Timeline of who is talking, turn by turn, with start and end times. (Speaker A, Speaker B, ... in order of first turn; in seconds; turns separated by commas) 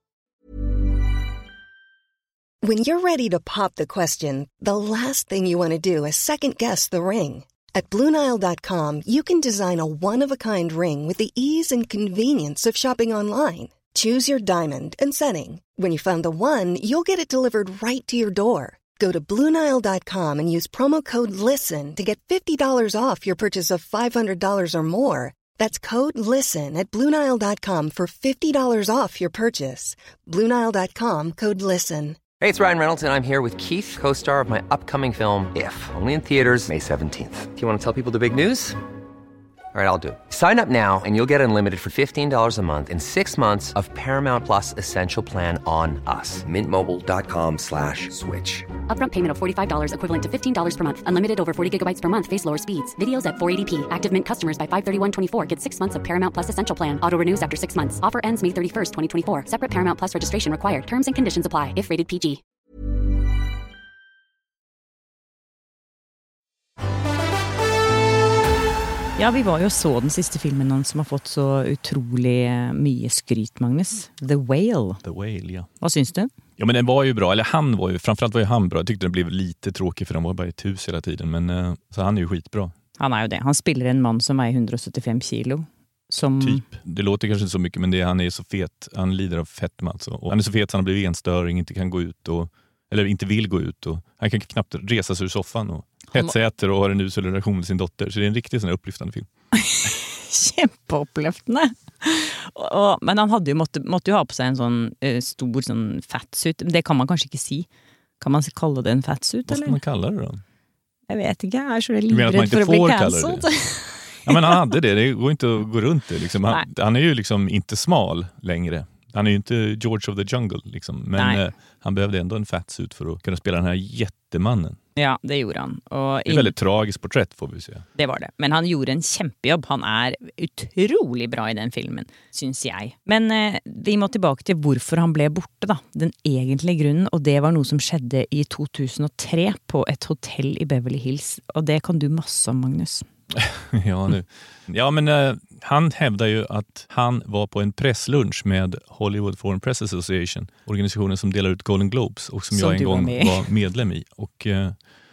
Speaker A: 2.6-32.2, Speaker B: 32.4-38.8, Speaker B: 39.7-48.8, Speaker C: 48.8-62.4, Speaker D: 69.2-75.0, Speaker E: 75.0-75.7, Speaker D: 75.8-76.3, Speaker E: 76.6-82.7, Speaker D: 83.0-86.6, Speaker E: 86.4-99.3, Speaker D: 99.6-107.7, Speaker D: 108.2-109.8, Speaker E: 109.5-110.4, Speaker D: 111.1-114.6, Speaker E: 112.1-113.5, Speaker E: 114.3-124.8, Speaker D: 121.2-121.4, Speaker D: 125.0-126.5, Speaker E: 126.3-127.9, Speaker D: 128.0-143.1, Speaker E: 143.3-154.8, Speaker D: 152.5-153.5